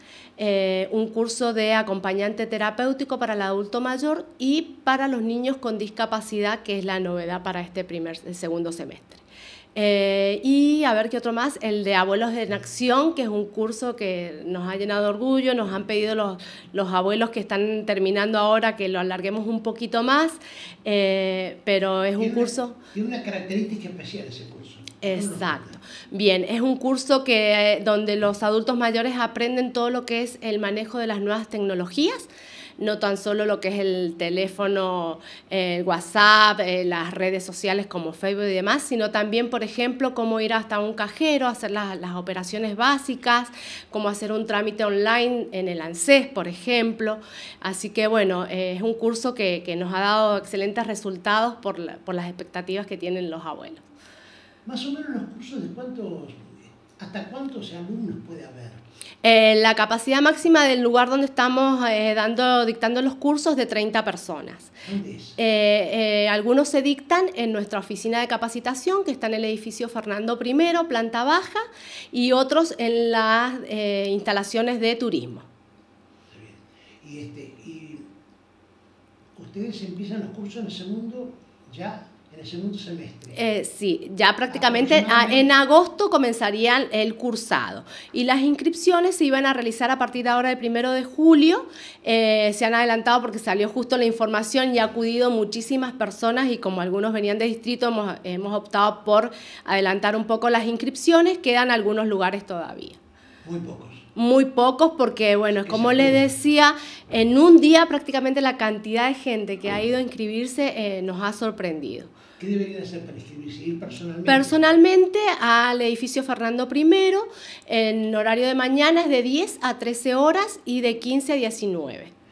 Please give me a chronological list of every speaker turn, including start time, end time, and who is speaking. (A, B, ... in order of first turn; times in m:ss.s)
0:00.4-0:09.2 A
0:09.8-0:22.8 A
0:22.2-0:25.7 B
0:25.0-0:53.8 A
0:54.6-0:58.8 B
0:59.2-1:04.7 A
1:04.8-1:05.4 B
1:05.4-1:15.5 A
1:16.3-1:18.0 B
1:19.4-1:23.4 B
1:23.3-1:43.0 A
1:24.5-1:25.5 B
1:43.4-1:44.0 B
1:44.1-1:52.1 A
1:45.6-1:46.3 B
1:52.4-1:54.6 B
1:54.2-2:02.1 A